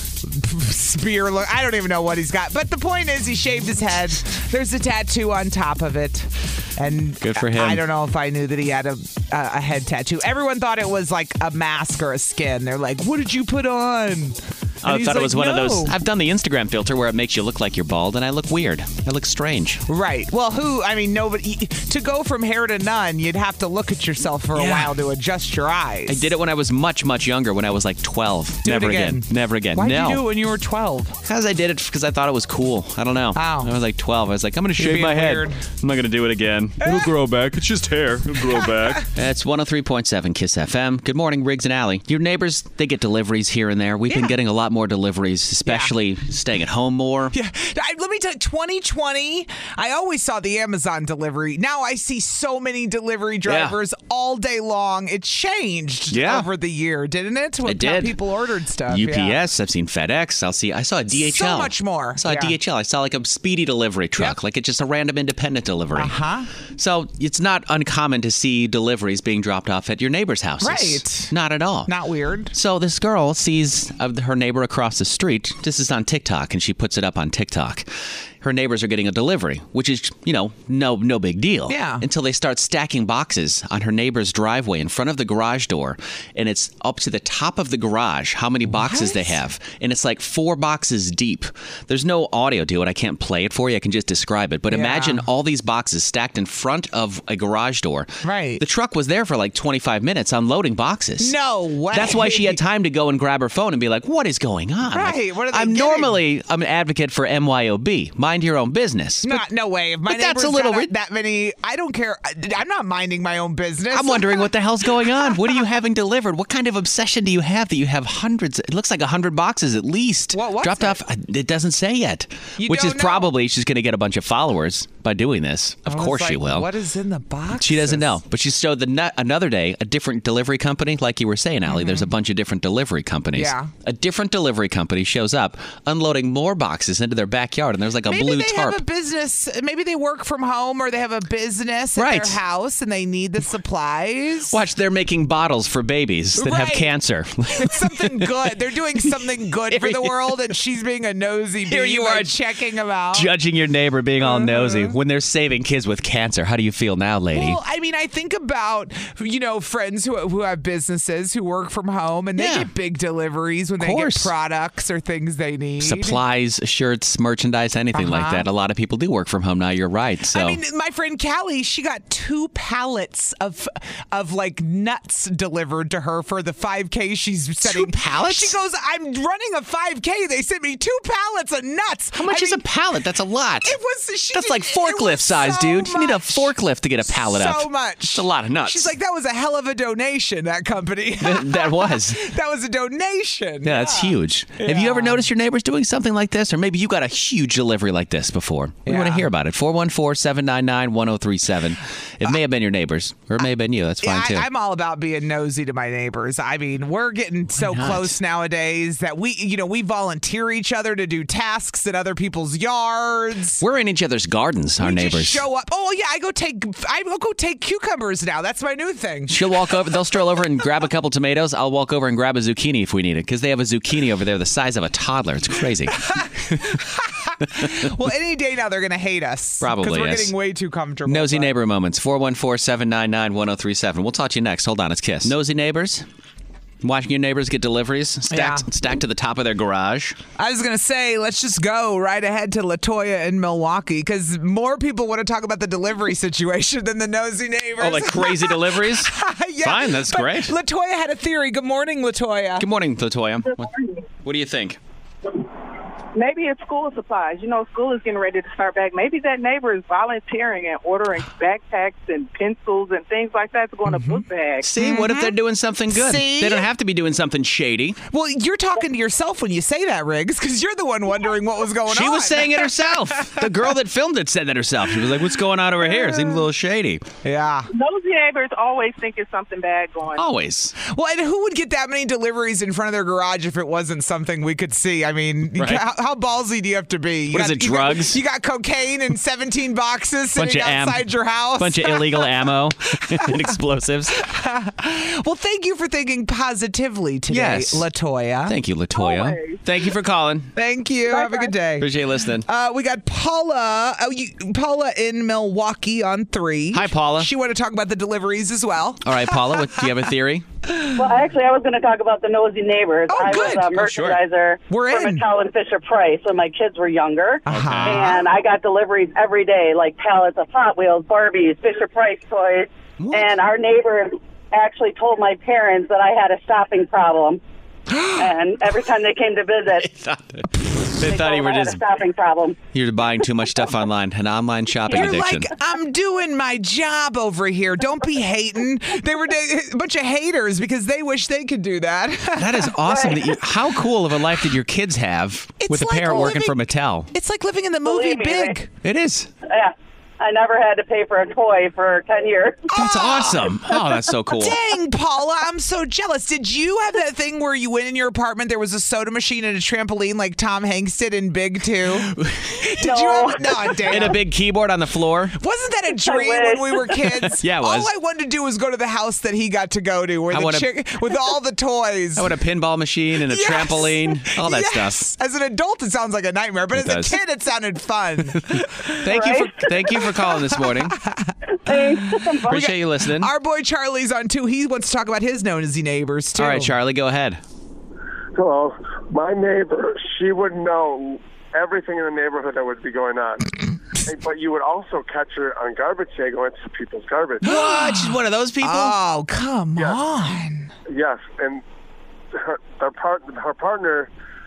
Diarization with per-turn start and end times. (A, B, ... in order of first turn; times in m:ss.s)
0:00.2-0:15.9 A
0:07.2-0:07.8 B
0:14.8-0:19.8 B
0:19.9-0:26.2 A
0:24.5-0:25.0 B
0:26.1-0:30.2 B
0:28.6-0:31.2 A
0:31.2-0:47.3 B
0:33.4-0:33.7 A
0:34.8-0:35.6 A
0:36.8-0:37.2 A
0:38.4-0:39.0 A
0:44.1-0:44.4 A
0:45.7-0:45.9 A
0:47.3-0:59.4 A
0:53.4-0:53.8 B
0:56.1-0:56.5 B
0:57.6-0:58.2 B
0:58.9-1:06.1 B
1:01.1-1:02.6 A
1:06.0-1:06.5 A
1:06.8-1:11.9 B
1:10.6-1:11.3 A
1:11.9-1:12.5 A
1:12.5-1:17.9 B
1:18.4-1:41.4 B
1:21.7-1:22.0 A
1:28.7-1:29.4 A
1:34.7-1:35.2 A
1:38.2-1:38.6 A
1:41.2-1:42.6 A
1:41.9-1:49.4 B
1:44.9-1:46.2 A
1:49.2-1:54.5 A
1:50.1-1:50.9 B
1:53.9-2:06.7 B
1:55.1-1:55.4 A
2:00.3-2:01.0 A
2:02.6-2:03.3 A
2:05.9-2:08.1 A
2:07.6-2:18.8 B
2:11.7-2:12.1 A
2:13.4-2:13.7 A
2:18.1-2:24.6 A
2:22.0-2:22.4 B
2:24.5-2:28.5 B
2:26.4-2:26.9 A
2:27.6-2:33.3 A
2:29.1-2:30.5 B
2:31.7-2:32.4 B
2:33.1-2:37.6 B
2:34.2-2:35.0 A
2:37.3-2:46.2 A
2:42.4-2:42.7 B
2:43.8-2:44.3 B
2:45.8-2:50.6 B
2:48.0-2:48.4 A
2:50.3-3:02.6 A
2:57.6-2:58.6 B
3:02.2-3:03.8 B
3:03.6-3:06.5 A
3:04.3-3:08.9 B
3:07.1-3:15.2 A
3:11.2-3:12.3 B
3:13.6-3:24.5 B
3:18.9-3:19.3 A
3:24.0-3:33.6 A
3:27.6-3:28.2 B
3:33.6-3:35.4 B
3:34.8-3:39.4 A
3:39.3-3:46.6 B
3:46.1-3:51.5 A
3:49.6-3:50.3 B
3:51.1-3:56.0 B
3:56.8-4:00.2 B
3:58.3-3:58.6 A
4:00.4-4:12.6 A
4:07.8-4:10.5 B
4:12.6-4:13.7 B
4:14.2-4:14.8 B
4:16.2-4:24.7 C
4:23.9-4:24.2 A
4:24.6-4:28.0 B
4:24.8-4:25.3 A
4:25.9-4:26.7 A
4:28.1-4:32.7 A
4:31.9-4:37.0 B
4:36.0-4:36.4 A
4:37.2-4:37.7 A
4:37.7-4:40.2 C
4:40.2-4:40.8 B
4:40.9-4:52.3 A
4:45.6-4:45.8 B
4:47.3-4:48.2 B
4:50.4-4:51.1 B
4:51.6-4:54.2 B
4:53.1-4:53.5 A
4:54.2-4:58.6 A
4:57.3-4:57.9 B
4:58.5-5:00.5 B
4:59.2-4:59.5 C
5:00.6-5:01.9 A
5:01.8-5:02.5 B
5:02.5-5:09.6 A
5:06.7-5:07.3 B
5:09.0-5:10.4 B
5:11.0-5:27.4 D
5:13.1-5:13.7 A
5:13.7-5:14.2 B
5:14.7-5:15.2 A
5:17.5-5:18.2 A
5:17.5-5:18.1 B
5:23.0-5:23.3 B
5:27.9-5:28.3 A
5:28.2-5:29.9 D
5:29.8-5:31.8 B
5:31.0-5:32.6 D
5:32.7-5:35.5 B
5:34.9-5:43.1 A
5:42.4-5:47.1 B
5:45.6-5:46.6 A
5:47.1-5:48.7 A
5:47.8-5:48.6 D
5:48.8-5:49.3 B
5:49.5-5:52.7 D
5:52.7-5:53.6 A
5:52.7-5:54.6 B
5:54.3-6:04.2 A
6:02.2-6:02.6 B
6:02.8-6:03.9 D
6:03.8-6:05.4 B
6:05.4-6:12.3 A
6:05.9-6:06.9 D
6:07.1-6:07.9 B
6:10.3-6:10.7 B
6:12.2-6:15.1 B
6:13.3-6:19.1 A
6:16.7-6:17.2 B
6:18.4-6:21.0 B
6:19.1-6:19.5 D
6:19.9-6:26.7 A
6:21.7-6:22.6 D
6:22.5-6:23.3 B
6:26.4-6:27.4 B
6:28.4-6:33.5 E
6:34.1-6:37.4 E
6:37.4-6:39.0 B
6:37.4-6:40.7 A
6:40.9-6:41.6 E
6:42.3-6:44.1 E